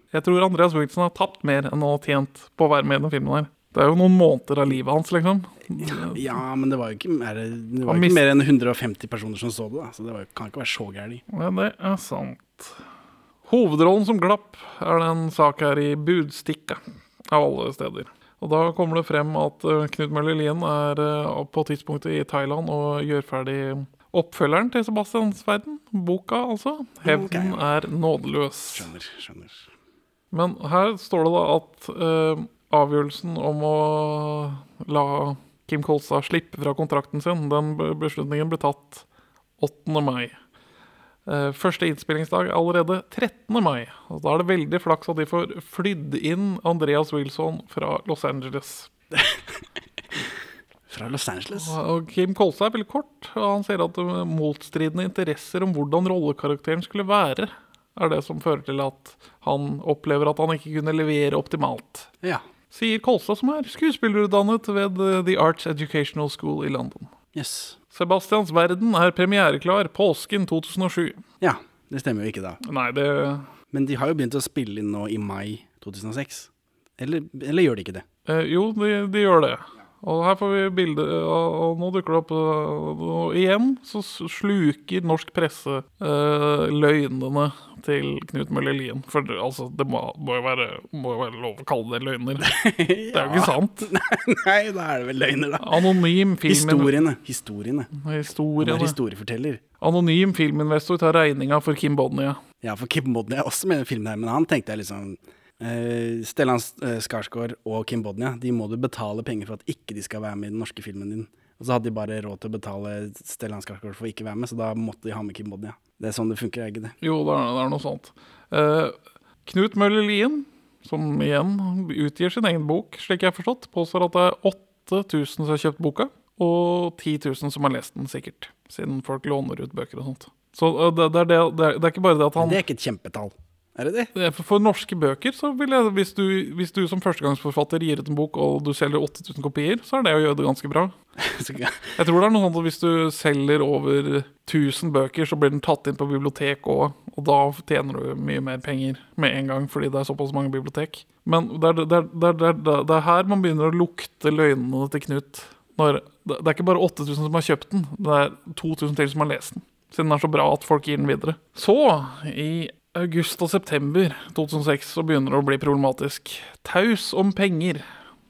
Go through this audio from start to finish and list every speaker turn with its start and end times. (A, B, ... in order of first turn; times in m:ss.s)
0:00.1-0:06.4 A
0:05.8-0:11.2 B
0:07.8-0:08.2 A
0:11.3-0:12.8 A
0:13.5-0:28.9 A
0:27.0-0:27.6 B
0:28.7-0:29.7 B
0:30.3-0:39.0 A
0:39.6-0:40.3 A
0:41.2-0:48.9 A
0:49.1-0:49.4 B
0:50.9-0:51.8 B
0:51.6-1:02.1 A
1:02.7-1:07.1 A
1:07.3-1:07.8 B
1:07.9-1:11.2 A
1:11.4-1:12.6 B
1:12.6-1:13.5 A
1:13.7-1:18.0 B
1:18.2-1:32.5 A
1:32.4-1:37.9 B
1:33.1-1:33.9 A
1:35.6-1:37.0 A
1:37.9-1:39.0 A
1:38.6-1:39.6 B
1:39.8-1:42.4 A
1:42.6-1:56.9 B
1:57.0-2:12.6 A
2:12.4-2:14.1 B
2:14.1-2:20.9 A
2:21.2-2:21.9 B
2:22.0-2:47.8 A